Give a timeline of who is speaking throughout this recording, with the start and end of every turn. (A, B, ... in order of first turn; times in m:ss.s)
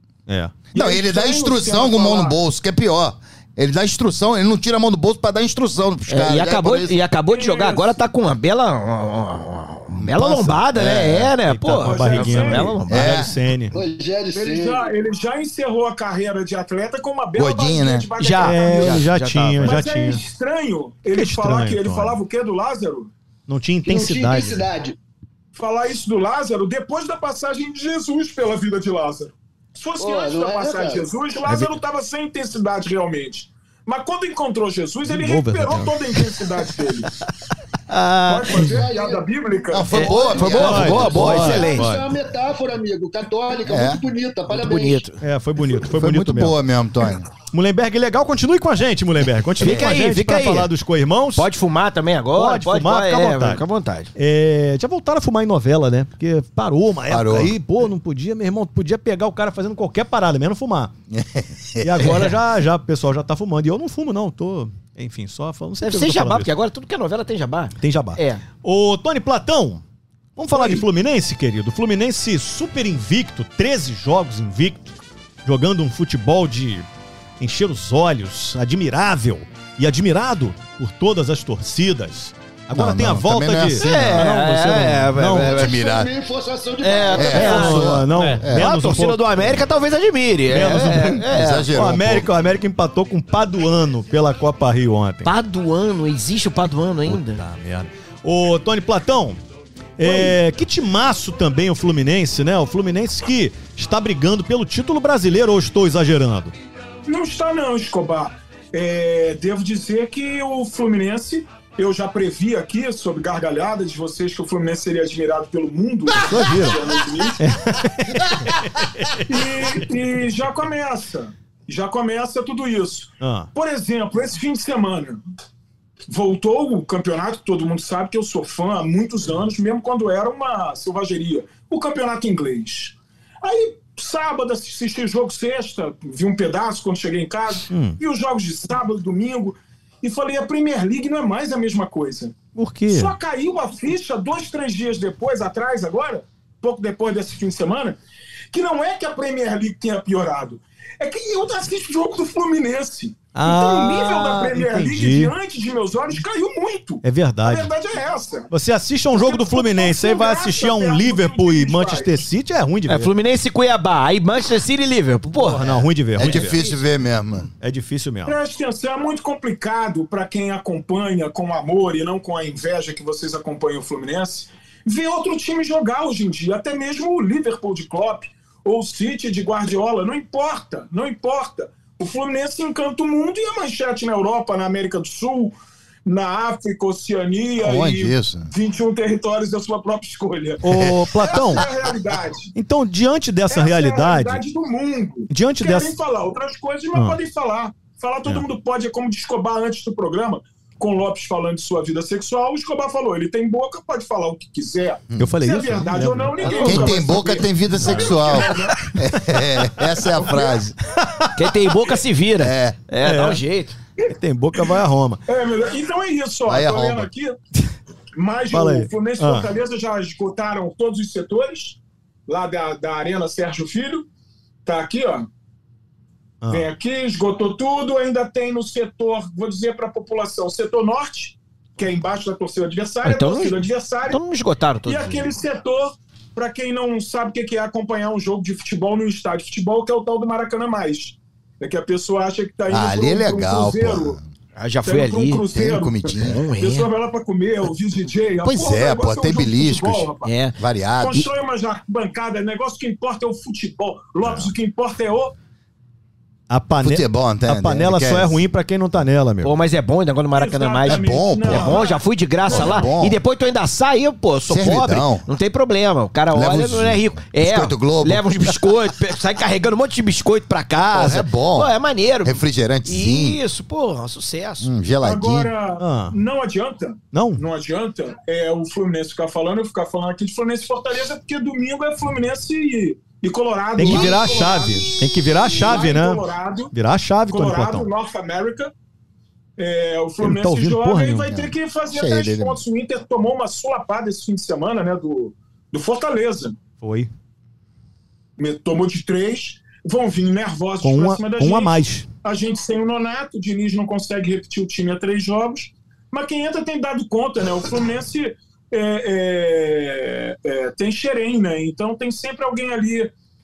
0:00.3-0:00.6 A
0:00.7-0:02.4 B
0:00.8-0:07.0 C
0:06.1-0:13.2 D
0:07.3-0:08.0 B
0:09.9-0:11.3 C
0:10.2-0:13.8 A
0:11.8-0:12.8 B
0:12.9-0:13.3 C
0:13.7-0:14.9 E
0:14.3-0:19.0 B
0:17.4-0:18.1 C
0:18.2-0:19.8 D
0:18.4-0:20.2 A
0:19.6-0:23.1 B
0:21.1-0:22.2 A
0:23.5-0:24.7 A
0:23.8-0:25.0 E
0:25.5-0:37.1 B
0:30.0-0:31.1 E
0:31.5-0:31.7 D
0:35.1-0:36.0 A
0:37.9-0:38.5 A
0:38.3-0:40.4 B
0:38.6-0:39.3 E
0:39.7-0:41.4 C
0:39.9-0:45.0 E
0:39.9-0:41.9 D
0:40.6-0:42.1 A
0:43.7-0:44.0 C
0:44.5-0:45.2 D
0:45.2-0:46.6 A
0:45.9-0:47.3 C
0:47.5-0:51.5 A
0:49.6-0:50.7 D
0:51.4-0:54.1 D
0:52.4-0:53.6 A
0:54.2-1:00.9 A
0:57.1-0:57.5 C
1:01.1-1:02.2 C
1:01.8-1:06.5 A
1:05.8-1:08.4 D
1:07.8-1:09.8 A
1:10.4-1:16.9 A
1:10.5-1:10.8 D
1:17.4-1:25.5 A
1:22.7-1:24.3 C
1:23.8-1:25.8 D
1:25.4-1:27.9 E
1:25.5-1:26.1 C
1:26.8-1:31.7 D
1:27.1-1:28.7 C
1:27.3-1:29.6 A
1:30.5-1:35.3 A
1:31.3-1:32.3 C
1:35.2-1:37.4 D
1:37.1-1:39.4 A
1:40.0-1:46.5 A
1:40.0-1:40.3 B
1:47.1-1:57.4 B
1:56.1-1:56.8 A
1:57.4-1:59.9 A
1:59.3-2:05.2 B
2:03.2-2:03.5 A
2:06.1-2:22.4 B
2:17.7-2:18.0 A
2:22.6-2:23.1 A
2:22.9-2:28.0 B
2:28.5-2:38.5 B
2:33.4-2:35.3 A
2:37.0-2:37.7 A
2:38.5-2:43.1 A
2:39.1-2:42.2 B
2:42.9-2:45.8 D
2:45.4-2:46.7 A
2:46.2-2:47.5 C
2:47.6-2:48.4 A
2:48.3-3:05.5 B
3:06.0-3:12.5 B
3:07.6-3:08.5 C
3:10.6-3:11.7 A
3:12.6-3:14.4 A
3:13.5-3:28.9 B
3:15.3-3:16.0 A
3:25.2-3:26.9 A
3:26.4-3:27.4 D
3:26.5-3:30.8 C
3:29.2-3:29.5 A
3:30.1-3:30.6 B
3:31.0-3:31.6 A
3:31.4-3:33.8 D
3:32.4-3:32.8 C
3:33.0-3:33.4 A
3:34.0-3:35.2 A
3:34.1-3:34.8 B
3:35.3-3:37.4 B
3:36.5-3:37.1 C
3:38.2-3:44.1 B
3:38.5-3:39.5 A
3:44.6-3:45.3 B
3:46.4-3:46.7 A
3:46.5-3:54.2 B
3:53.0-3:55.3 D
3:54.8-4:04.2 B
4:02.7-4:04.2 C
4:04.6-4:05.5 D
4:04.8-4:10.3 B
4:05.5-4:06.4 C
4:06.1-4:06.9 D
4:08.4-4:11.3 C
4:10.2-4:10.6 D
4:11.0-4:15.4 B
4:16.5-4:19.5 A
4:16.8-4:18.4 C
4:19.4-4:34.7 D
4:20.3-4:22.9 B
4:20.9-4:21.8 C
4:22.5-4:23.2 C
4:24.5-4:25.3 C
4:26.3-4:28.5 C
4:30.9-4:31.7 C
4:32.2-4:33.4 C
4:34.6-4:35.5 C
4:35.0-4:45.0 B
4:35.8-4:36.2 A
4:37.1-4:37.4 A
4:43.8-4:47.9 A
4:43.8-4:45.8 C
4:45.5-4:46.7 B
4:47.3-4:48.7 B
4:49.6-4:56.6 B
4:50.2-4:51.4 A
4:51.3-4:52.6 C
4:56.8-4:57.1 A
4:58.4-5:13.1 B
5:00.8-5:02.1 A